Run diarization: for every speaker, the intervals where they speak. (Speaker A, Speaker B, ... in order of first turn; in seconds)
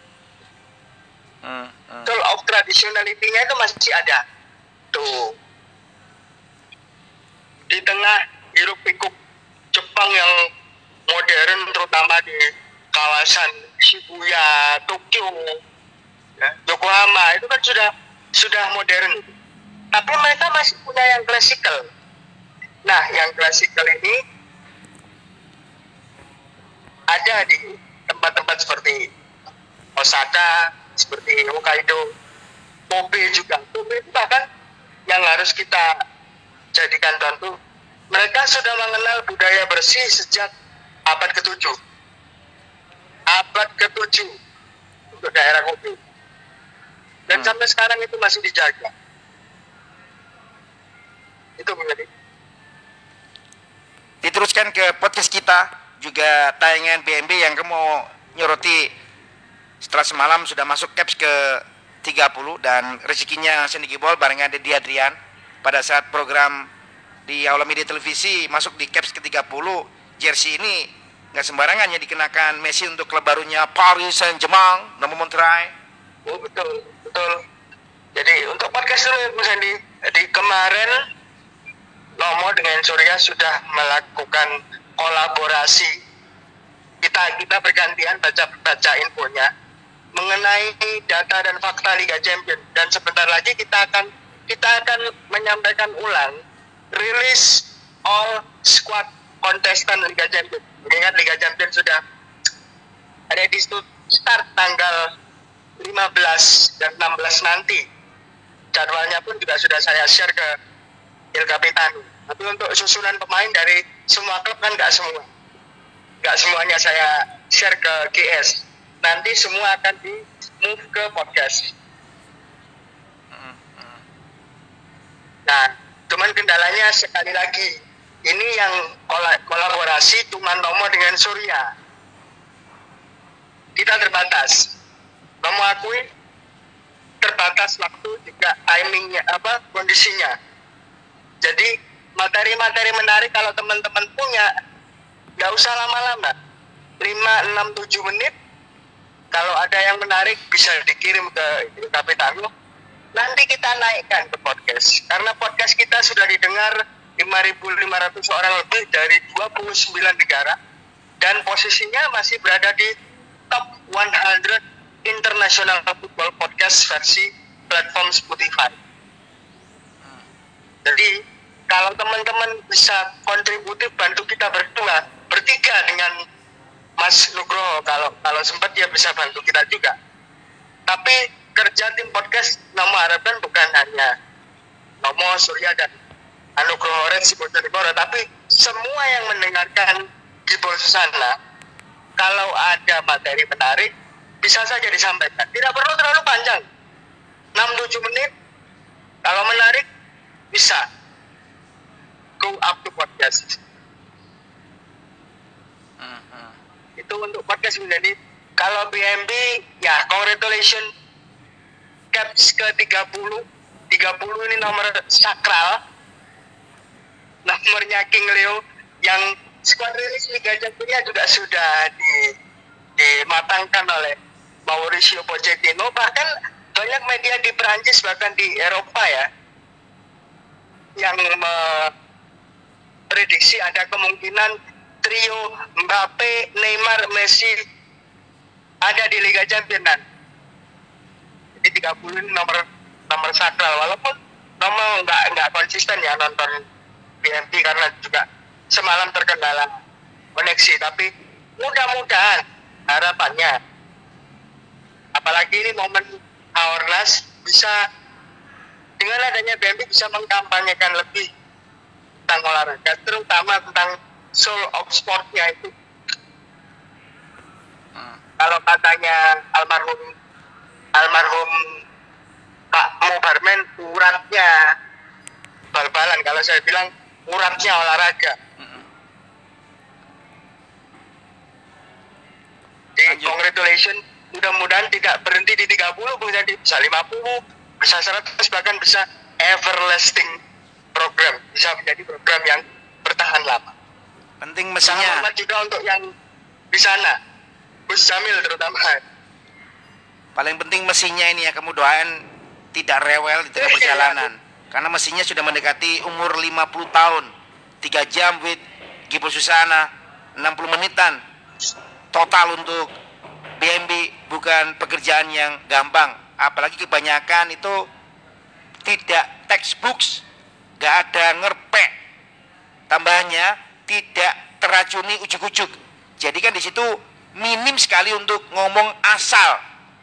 Speaker A: 1.4-2.1, 54.2-58.9, 59.8-66.7, 67.3-75.7, 123.3-124.0, 206.0-206.6, 267.9-268.2, 278.6-278.9, 283.1-283.4, 294.4-295.3, 300.4-302.2, 302.7-311.2, 312.1-312.9, 313.6-317.9, 318.9-320.2, 320.8-321.9, 322.9-329.6
Speaker B: 2.1-4.2, 4.9-5.3, 7.7-9.2, 9.7-10.4, 11.1-15.6, 16.4-19.3, 19.9-21.9, 22.9-24.2, 27.1-29.1, 30.0-32.0, 32.9-34.5, 35.1-35.9, 36.8-37.6, 38.1-40.5, 41.1-41.8, 43.3-44.4, 45.1-46.0, 47.3-48.9, 51.6-52.1, 76.3-77.4, 78.2-81.0, 82.2-85.9, 87.0-89.5, 90.2-96.4, 96.9-102.0, 103.3-105.1, 105.8-107.8, 108.7-110.5, 111.3-115.3, 116.2-121.7, 125.5-127.7, 128.2-131.7, 133.8-134.7, 135.4-136.1, 137.2-140.3, 141.4-144.5, 145.4-146.3, 147.0-148.3, 149.3-152.5, 153.2-160.6, 161.2-162.9, 163.5-168.8, 170.9-171.1, 171.7-176.2, 177.0-179.9, 180.9-184.1, 185.0-185.9, 186.6-191.3, 192.2-193.9, 194.4-196.7, 197.6-198.3, 199.2-199.8, 200.5-200.8, 202.4-203.6, 207.0-210.9, 212.1-215.8, 217.5-222.3, 223.0-229.3, 231.0-231.9, 233.1-237.6, 238.8-240.0, 241.6-246.6, 247.2-249.7, 250.3-253.6, 255.2-257.8, 259.0-261.3, 262.3-265.7, 268.4-270.1, 270.9-271.8, 272.7-274.7, 275.7-278.4, 283.0-290.4, 290.9-293.7, 294.8-296.1, 296.7-297.2, 297.9-299.0, 303.6-304.3